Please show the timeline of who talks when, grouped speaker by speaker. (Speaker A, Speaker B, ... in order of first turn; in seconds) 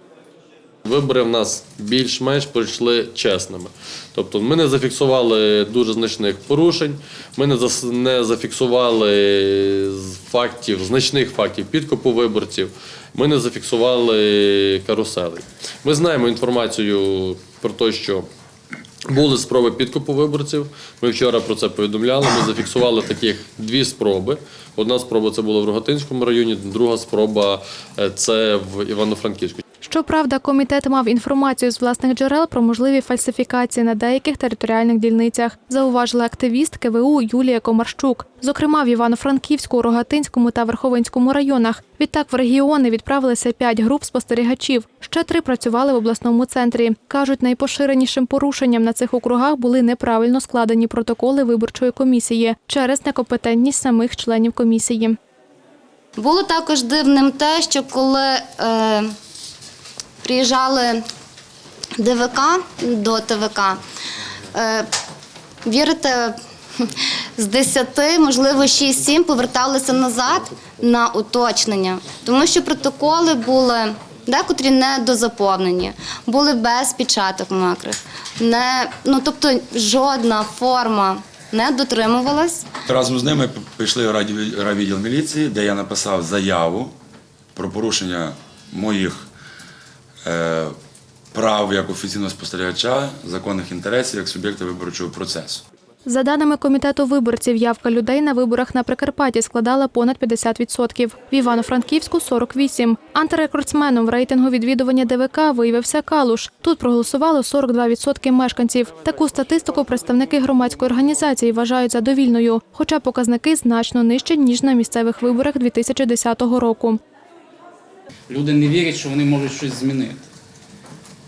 Speaker A: 0.9-3.7, 4.2-9.5, 10.1-18.2, 19.2-29.6
Speaker B: 29.8-55.2, 96.1-117.0
Speaker C: 56.2-59.1, 60.2-61.0, 62.0-63.8, 64.5-64.9, 65.6-82.7
Speaker D: 82.9-86.9, 87.5-89.3, 90.2-90.8, 91.3-95.6
Speaker E: 118.3-120.3